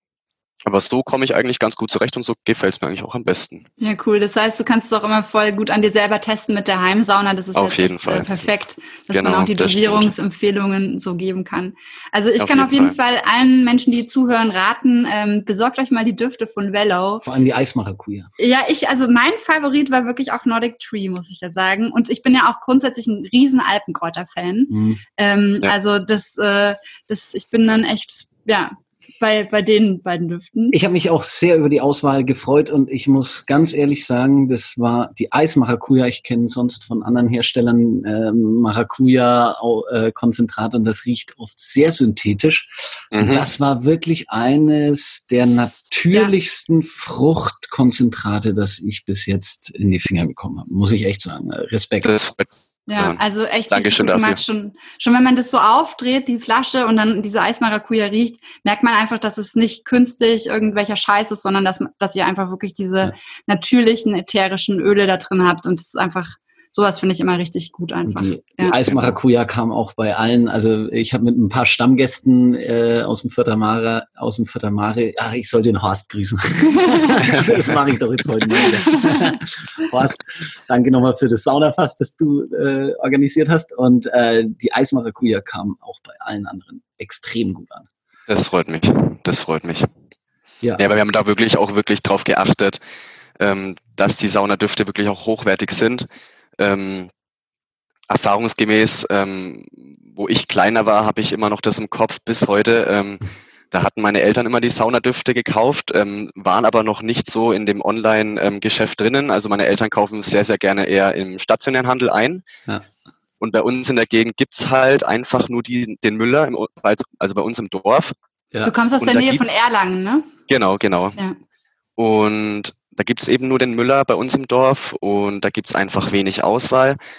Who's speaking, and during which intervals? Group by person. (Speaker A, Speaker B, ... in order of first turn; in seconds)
Speaker A: 0.7-3.6, 7.5-8.3, 9.1-10.1, 12.4-12.9, 43.1-43.5, 52.0-53.2, 53.7-54.4, 68.8-69.1, 88.3-89.9, 90.8-92.8, 93.4-96.0, 96.6-97.1, 98.1-112.4, 113.4-118.1, 119.0-119.6, 120.5-121.2, 122.0-127.0
Speaker B: 3.8-17.2, 18.4-30.8, 52.9-68.8, 76.8-77.1, 78.8-79.2, 118.6-120.3
Speaker C: 17.2-18.3, 24.7-25.0, 30.7-52.1, 68.0-87.9